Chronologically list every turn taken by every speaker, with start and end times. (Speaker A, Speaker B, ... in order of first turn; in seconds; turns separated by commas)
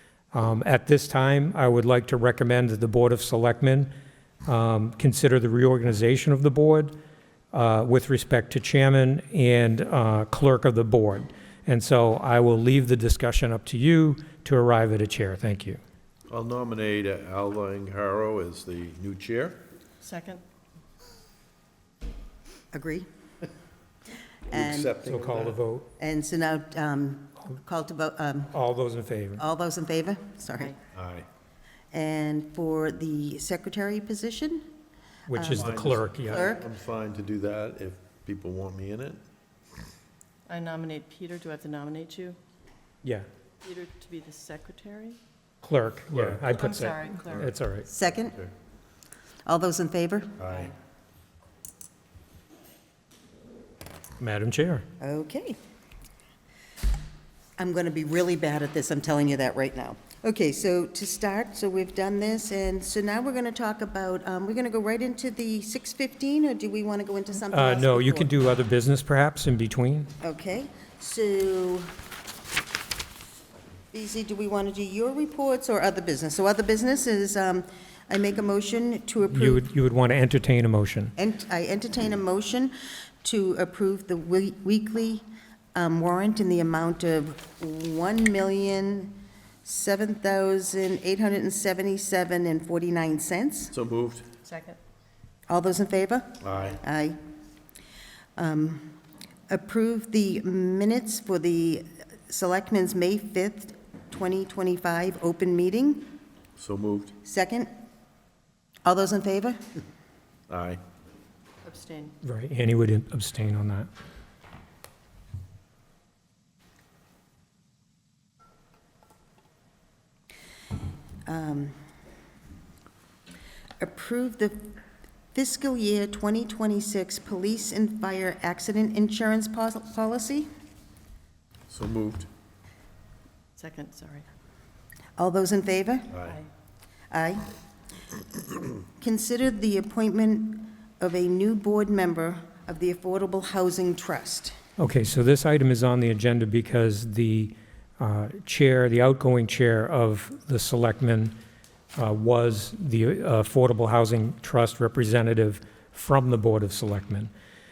Speaker A: 0.3-3.9, Speaker A: 4.5-7.0, Speaker A: 7.5-15.8, Speaker B: 16.3-19.6, Speaker C: 20.0-20.4, Speaker D: 22.7-23.1, Speaker D: 24.5-25.4, Speaker B: 24.5-25.6, Speaker A: 25.1-25.9, Speaker D: 26.0-28.6, Speaker A: 28.5-29.4, Speaker D: 29.4-30.8, Speaker B: 30.9-31.3, Speaker D: 31.9-34.7, Speaker A: 35.3-36.5, Speaker D: 35.3-36.7, Speaker B: 35.6-39.2, Speaker C: 40.5-42.4, Speaker C: 43.6-45.2, Speaker A: 45.6-47.9, Speaker B: 46.1-46.4, Speaker C: 46.5-47.5, Speaker D: 47.9-48.4, Speaker D: 49.5-50.4, Speaker B: 50.4-50.7, Speaker A: 54.2-54.9, Speaker D: 55.0-55.6, Speaker D: 57.6-68.3, Speaker A: 67.5-70.1, Speaker D: 70.2-71.9, Speaker D: 73.9-79.6, Speaker A: 79.3-81.1, Speaker D: 81.2-93.7, Speaker B: 93.7-94.3, Speaker C: 94.4-94.8, Speaker D: 95.5-97.2, Speaker B: 96.4-96.8, Speaker D: 98.4-98.9, Speaker D: 99.5-106.1, Speaker B: 106.6-107.2, Speaker D: 107.2-107.7, Speaker D: 108.8-109.7, Speaker B: 110.5-110.8, Speaker C: 111.6-112.2, Speaker A: 112.2-113.9, Speaker D: 121.3-121.8, Speaker D: 123.8-124.8, Speaker D: 125.3-130.5, Speaker B: 131.7-132.3, Speaker C: 133.6-134.3, Speaker D: 135.2-136.2, Speaker B: 136.1-136.4, Speaker C: 136.2-136.5, Speaker D: 137.1-137.5, Speaker D: 139.0-144.6, Speaker A: 144.8-151.3, Speaker A: 152.0-157.3